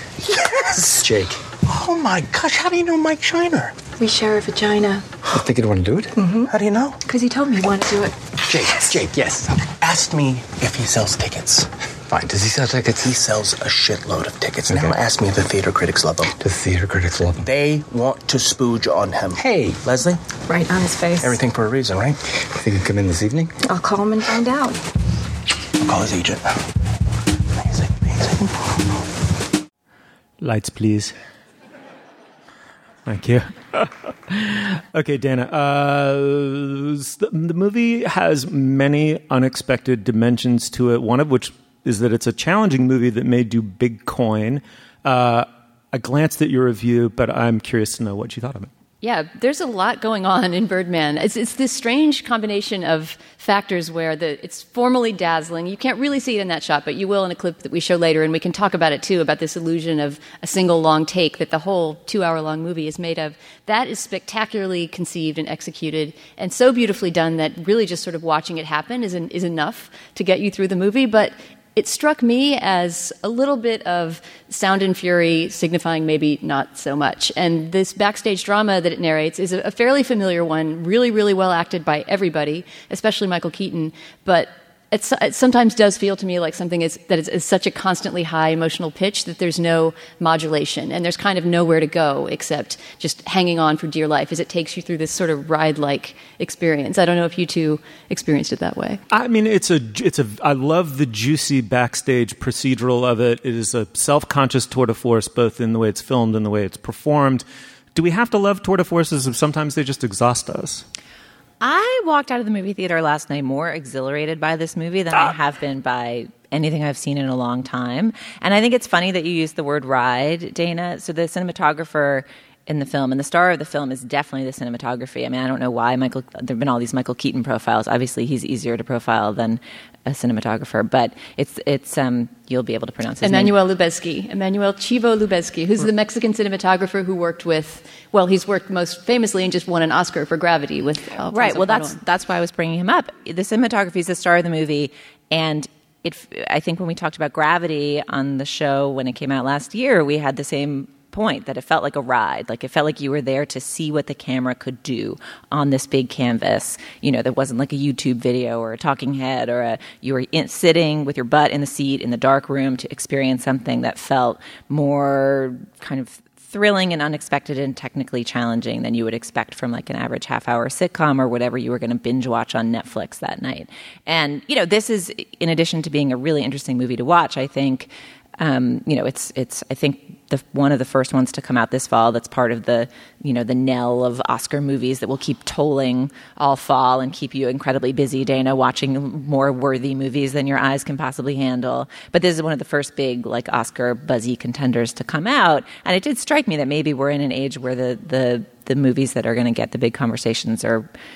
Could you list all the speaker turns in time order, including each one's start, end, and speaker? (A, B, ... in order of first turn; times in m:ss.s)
0:00.3-0:01.0 A
0:01.0-0:01.3 B
0:01.6-0:03.8 A
0:04.0-0:05.1 C
0:05.3-0:06.2 B
0:06.5-0:07.0 A
0:07.0-0:08.9 C
0:08.8-0:16.4 A
0:12.2-0:13.0 B
0:16.4-0:17.4 B
0:17.4-0:20.2 A
0:20.5-0:21.4 C
0:21.2-0:23.5 A
0:23.6-0:24.8 C
0:25.8-0:26.6 A
0:27.6-0:28.8 A
0:30.4-0:31.1 D
0:33.0-0:48.7 D
0:49.0-1:39.0 E
1:39.1-1:50.8 D
1:51.6-2:13.5 F
2:13.2-2:22.0 E
2:21.3-3:20.9 F